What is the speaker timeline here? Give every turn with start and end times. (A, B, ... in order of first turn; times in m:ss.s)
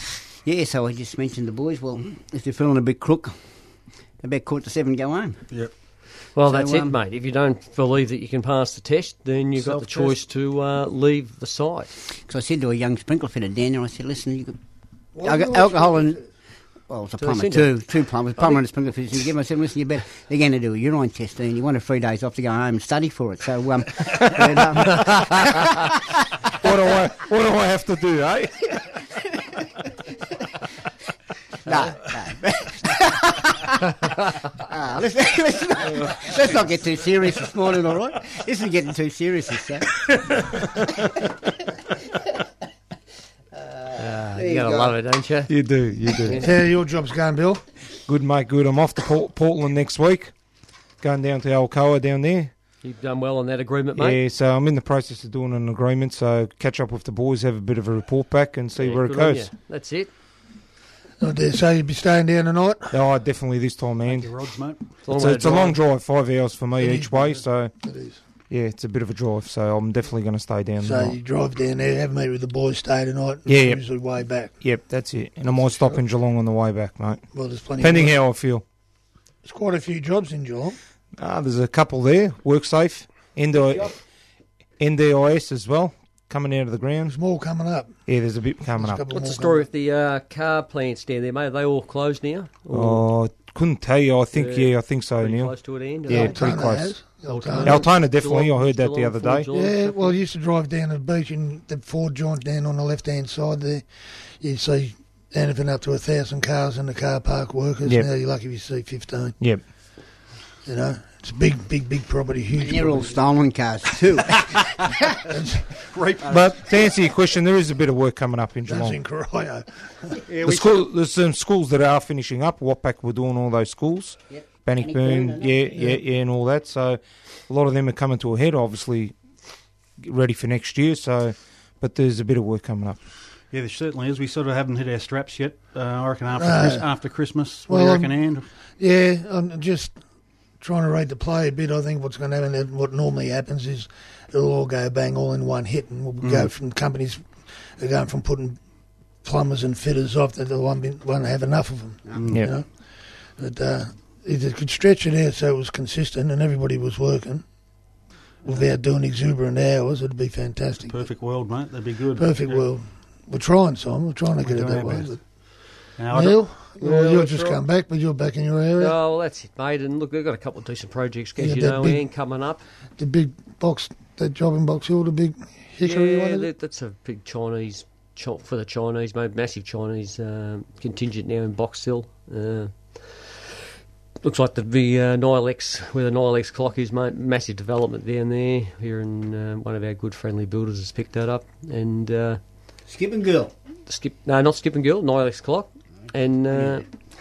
0:00.4-0:03.3 A
0:04.2-0:05.4 A
0:06.4-0:11.9 B
0:06.4-0:06.9 A
0:09.6-0:10.2 C
0:12.3-0:14.6 A
0:15.1-0:16.2 D
0:15.2-0:16.2 A
0:16.9-0:25.9 A
0:17.2-0:17.7 B
0:26.6-0:28.7 E
0:29.2-0:29.6 A
0:31.6-0:42.4 A
0:43.5-0:44.9 A
0:44.0-0:45.5 B
0:45.5-0:46.4 E
0:46.2-0:46.5 B
0:46.3-0:47.6 D
0:48.1-0:50.3 E
0:51.0-0:52.5 E
0:52.8-0:54.2 B
0:54.0-0:59.5 E
0:58.8-1:00.1 B
1:01.2-1:03.0 D
1:02.9-1:04.3 E
1:04.0-1:04.9 C
1:05.0-1:05.8 B
1:05.1-1:07.7 E
1:06.8-1:08.2 D
1:08.5-1:11.2 E
1:10.8-1:14.5 D
1:13.5-1:13.8 E
1:14.6-1:17.2 E
1:15.5-1:16.0 D
1:17.3-1:18.2 D
1:17.8-1:18.6 E
1:19.4-1:20.8 D
1:21.2-1:23.9 E
1:24.8-1:27.2 E
1:27.0-1:28.0 D
1:28.1-1:29.0 E
1:28.8-1:29.6 D
1:29.1-1:33.0 B
1:32.7-1:35.5 E
1:34.3-1:36.4 B
1:36.1-1:37.0 E
1:36.1-1:37.9 D
1:37.2-1:40.2 B
1:37.6-1:39.5 E
1:39.5-1:43.8 D
1:44.4-1:49.4 D
1:49.4-1:49.6 E
1:50.6-1:53.2 D
1:52.6-1:55.2 A
1:55.3-1:55.8 D
1:55.8-1:56.7 C
1:56.2-1:59.0 E
1:58.6-2:00.3 D
2:00.3-2:00.8 A
2:00.4-2:09.2 E
2:04.3-2:06.0 A
2:10.0-2:13.0 E
2:13.5-2:18.5 C
2:16.4-2:16.8 D
2:17.7-2:18.1 D
2:18.8-2:20.0 D
2:20.6-2:28.6 D
2:26.2-2:26.5 C
2:29.2-2:32.7 D
2:33.4-2:37.4 D
2:38.4-2:41.0 D
2:40.9-2:42.6 C
2:42.2-2:45.2 D
2:44.4-2:45.1 C
2:46.0-2:46.4 C
2:46.1-2:48.9 D
2:46.8-2:47.6 B
2:48.8-2:52.6 B
2:51.4-2:52.0 D
2:53.0-2:56.5 D
2:55.8-3:03.0 B
3:04.2-3:12.4 B
3:12.9-3:13.5 A
3:13.9-3:16.8 B
3:16.5-3:16.8 A